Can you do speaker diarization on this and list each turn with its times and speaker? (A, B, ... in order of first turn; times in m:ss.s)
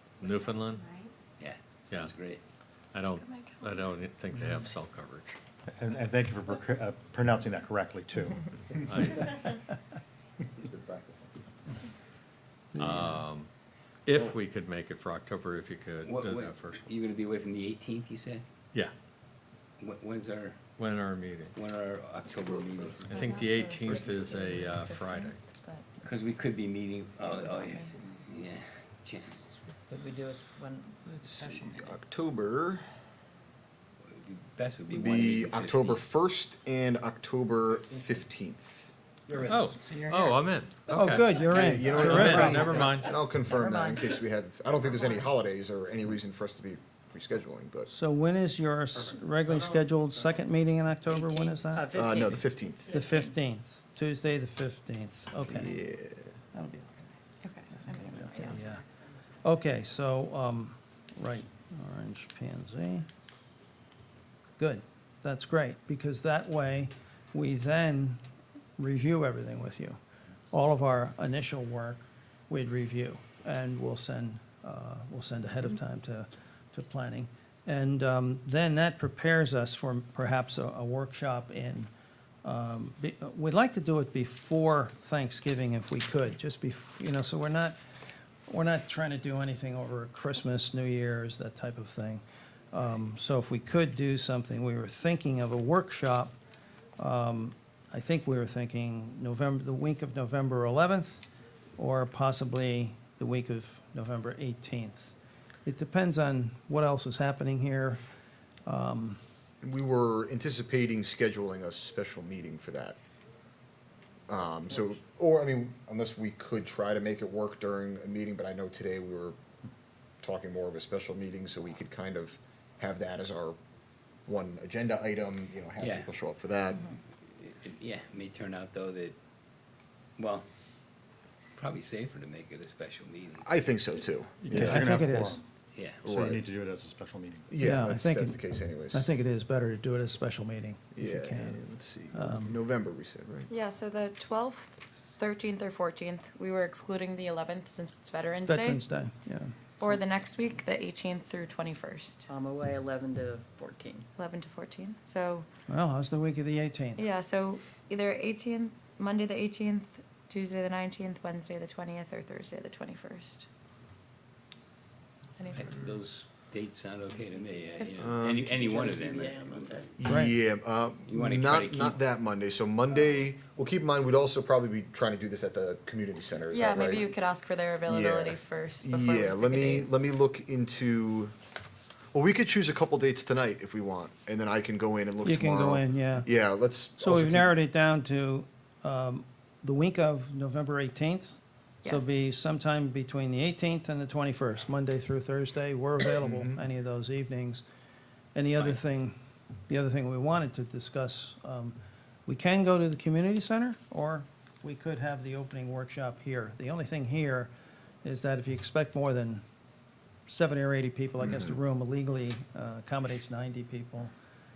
0:00.2-0:00.9 A
0:01.4-0:02.4 B
0:02.9-0:05.4 A
0:03.1-0:03.9 C
0:05.7-0:08.8 D
0:08.8-0:09.6 A
0:10.7-0:11.1 E
0:12.8-0:13.2 F
0:12.8-0:13.5 A
0:14.1-0:16.8 A
0:16.0-0:18.4 B
0:19.8-0:20.6 B
0:20.8-0:21.6 A
0:21.6-0:23.2 B
0:22.3-0:22.9 E
0:23.0-0:25.4 A
0:23.1-0:25.8 C
0:26.0-0:29.4 B
0:27.3-0:27.9 C
0:29.9-0:31.9 G
0:31.2-0:32.8 E
0:34.0-0:36.0 B
0:34.9-0:38.9 E
0:39.3-0:43.2 A
0:39.9-0:40.2 G
0:40.9-0:42.8 F
0:41.3-0:47.9 E
0:43.3-0:44.2 G
0:47.9-0:51.9 F
0:51.1-0:53.3 G
0:51.9-0:52.9 E
0:52.9-0:55.8 F
0:55.4-0:56.3 E
0:56.5-0:57.1 F
0:57.4-0:58.6 C
0:57.7-0:58.8 F
0:59.4-1:03.1 F
1:04.6-1:08.2 F
1:08.8-1:10.0 F
1:10.5-1:21.9 F
1:22.4-1:27.8 F
1:28.5-1:36.4 F
1:37.0-1:41.2 F
1:41.8-1:45.1 F
1:45.6-1:48.0 F
1:48.7-1:49.2 F
1:49.6-1:53.0 E
1:54.3-1:59.4 E
2:00.2-2:03.6 E
2:04.3-2:06.9 E
2:05.8-2:06.1 B
2:07.3-2:09.2 B
2:10.2-2:10.4 B
2:11.6-2:13.6 B
2:13.4-2:14.9 E
2:14.5-2:14.8 A
2:14.5-2:15.4 D
2:14.5-2:15.4 F
2:15.7-2:16.1 B
2:16.0-2:16.4 E
2:16.1-2:17.6 D
2:17.5-2:19.1 E
2:17.6-2:22.6 F
2:20.9-2:23.5 E
2:23.5-2:28.8 C
2:28.4-2:29.5 F
2:29.8-2:32.3 C
2:32.3-2:34.1 G
2:34.2-2:35.5 C
2:35.7-2:37.1 F
2:37.0-2:43.5 C
2:45.4-2:45.9 C
2:45.7-2:49.9 B
2:48.0-2:48.8 E
2:48.8-2:49.9 G
2:50.0-2:57.2 E
2:50.1-2:50.4 F
2:51.1-2:52.0 B
2:56.5-2:59.9 C
2:57.9-3:01.3 E
3:02.1-3:07.5 E
3:05.2-3:06.3 F
3:07.0-3:11.4 F
3:11.8-3:12.2 C
3:11.9-3:17.6 F
3:16.2-3:16.6 E
3:18.3-3:19.2 F
3:19.7-3:27.5 F
3:28.0-3:29.4 F
3:30.3-3:34.1 F
3:31.2-3:31.6 E